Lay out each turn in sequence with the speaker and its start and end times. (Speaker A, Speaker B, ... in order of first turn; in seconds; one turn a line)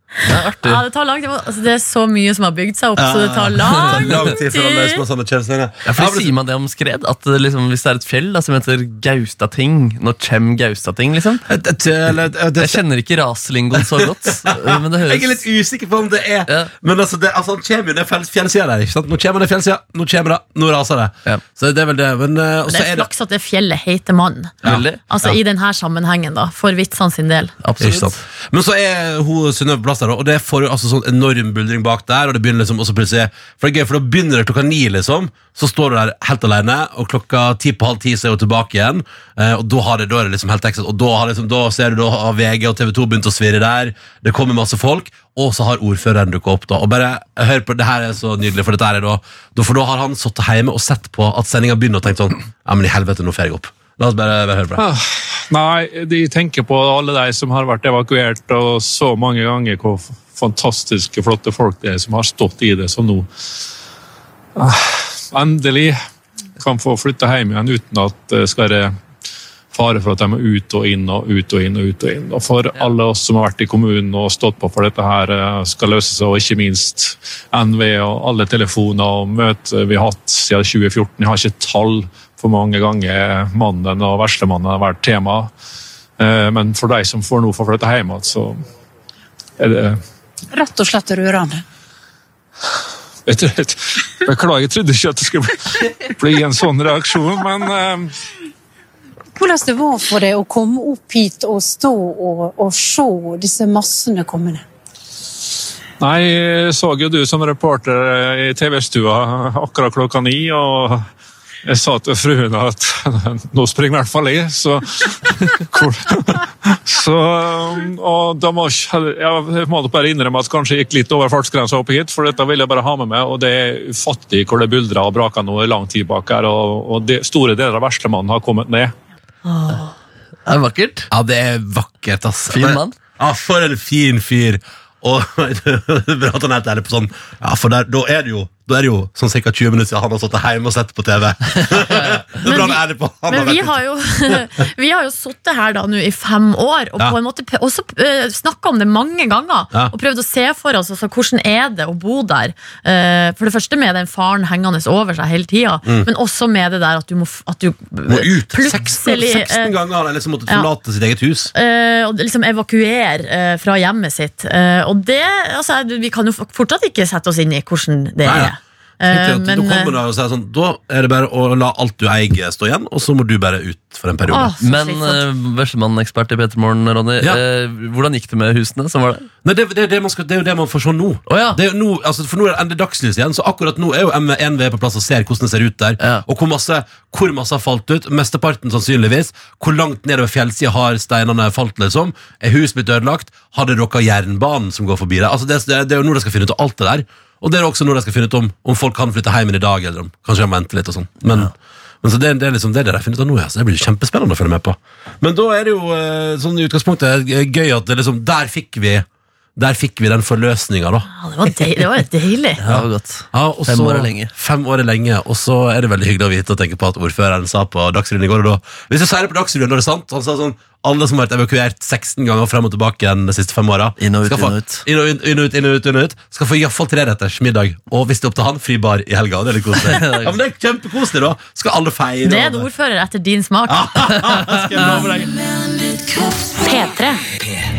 Speaker A: 0.3-5.0
Speaker B: 0.3-0.8
Speaker C: 3.0-6.3
Speaker B: 3.8-4.2
Speaker B: 5.9-11.4
Speaker C: 11.5-12.8
Speaker B: 12.6-15.4
Speaker C: 13.8-23.1
Speaker A: 22.7-24.6
Speaker C: 24.6-25.4
Speaker B: 24.6-25.0
Speaker A: 25.1-27.5
Speaker B: 27.6-28.2
Speaker C: 27.8-54.8
Speaker D: 54.8-63.3
Speaker D: 64.6-66.0
Speaker D: 66.6-68.9
Speaker D: 69.7-85.5
Speaker D: 86.2-88.6
Speaker D: 89.6-90.0
Speaker E: 90.5-91.6
Speaker D: 93.3-98.1
Speaker E: 99.4-104.6
Speaker D: 106.0-111.1
Speaker D: 111.7-128.9
Speaker A: 129.5-129.9
Speaker B: 130.5-131.1
Speaker C: 131.1-143.8
Speaker B: 132.5-132.9
Speaker B: 141.8-142.2
Speaker A: 142.4-159.8
Speaker C: 158.1-161.5
Speaker A: 161.5-170.0
Speaker C: 168.2-168.5
Speaker C: 169.1-174.5
Speaker A: 174.3-175.2
Speaker B: 174.6-179.3
Speaker C: 179.4-211.1
Speaker B: 181.3-181.6
Speaker A: 211.1-212.6
Speaker B: 212.6-214.3
Speaker C: 212.7-232.7
Speaker B: 224.0-224.8
Speaker B: 229.9-230.3
Speaker A: 232.2-234.0
Speaker C: 233.7-235.3
Speaker B: 234.4-234.8
Speaker A: 236.4-237.2